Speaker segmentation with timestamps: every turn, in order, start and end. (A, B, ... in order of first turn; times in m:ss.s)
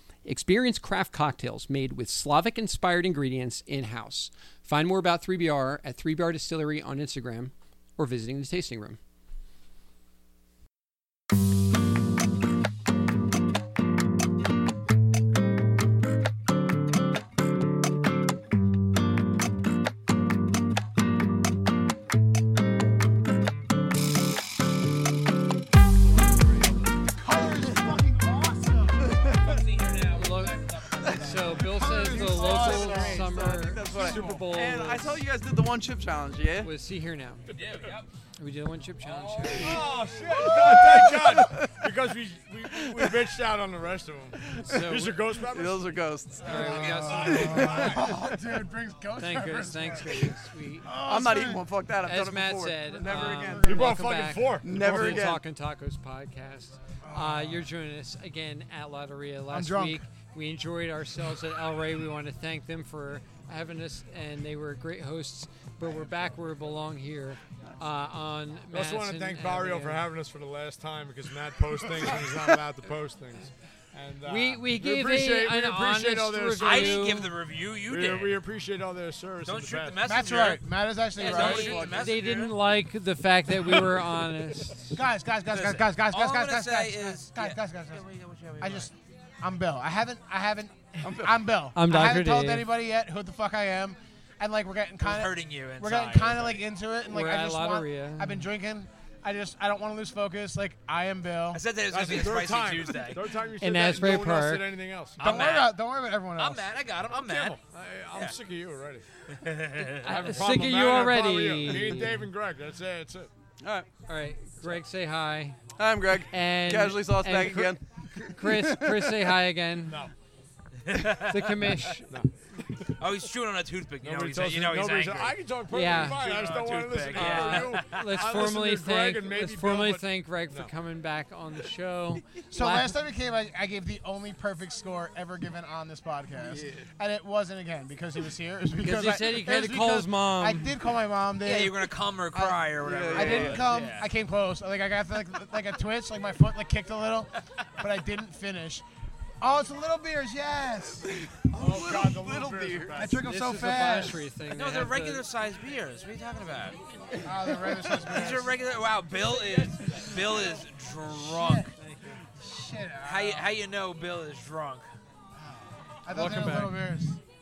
0:00.2-0:09.0 A
0:26.3-0:26.6 B
0:27.2-0:29.3 C
0:29.2-0:32.4 D
0:30.1-0:35.2 A
0:31.6-0:34.5 C
0:32.3-0:36.7 B
0:36.6-0:37.4 A
0:37.5-0:38.1 D
0:37.6-0:37.9 E
0:38.4-0:39.9 A
0:39.0-0:40.1 D
0:39.5-0:46.1 E
0:39.7-0:41.8 B
0:42.7-0:43.2 B
0:44.6-0:45.2 A
0:45.4-0:47.9 B
0:46.4-0:50.3 C
0:46.4-0:48.1 A
0:46.6-0:47.7 D
0:46.8-0:48.1 E
0:49.2-0:50.9 A
0:50.8-0:51.7 C
0:51.0-0:53.9 B
0:52.0-1:10.0 A
0:53.1-0:53.9 C
0:53.6-0:55.4 E
0:54.6-0:55.4 B
0:57.0-0:57.7 C
0:59.5-1:00.0 C
1:08.7-1:17.3 E
1:14.2-1:17.3 A
1:16.6-1:18.4 D
1:17.9-1:20.0 E
1:19.4-1:22.5 D
1:20.0-1:21.9 C
1:21.2-1:22.4 B
1:21.8-1:25.0 A
1:23.7-1:24.0 E
1:24.9-1:28.0 C
1:25.5-1:28.9 D
1:28.6-1:41.6 C
1:31.0-1:31.4 B
1:31.7-1:32.7 A
1:35.0-1:36.6 D
1:37.1-1:38.5 A
1:41.5-1:43.3 D
1:41.9-1:45.2 E
1:43.6-1:44.7 A
1:45.2-1:46.7 C
1:45.2-1:45.8 D
1:46.4-1:47.6 D
1:47.1-1:49.0 E
1:49.3-1:50.4 D
1:49.9-1:53.3 E
1:50.0-1:52.3 A
1:53.6-1:53.9 B
1:54.1-1:55.6 A
1:55.8-1:57.8 B
1:56.3-2:00.0 A
1:58.4-1:59.3 B
1:59.9-2:00.1 E
2:00.8-2:01.5 D
2:01.2-2:02.1 A
2:02.0-2:02.9 E
2:03.0-2:05.4 D
2:04.0-2:10.7 E
2:05.7-2:06.2 A
2:06.0-2:08.4 D
2:07.1-2:12.9 A
2:12.5-2:28.8 C
2:16.4-2:16.9 B
2:18.8-2:20.7 A
2:21.4-2:24.0 D
2:22.8-2:23.6 B
2:29.4-2:31.1 C
2:31.1-2:33.1 B
2:31.5-2:33.2 E
2:32.9-2:34.2 C
2:33.2-2:35.2 A
2:34.5-2:36.8 D
2:37.2-2:38.6 C
2:38.0-2:41.7 D
2:41.1-2:41.7 C
2:42.4-2:43.5 C
2:43.0-2:44.9 D
2:45.4-2:47.2 C
2:46.1-2:46.8 A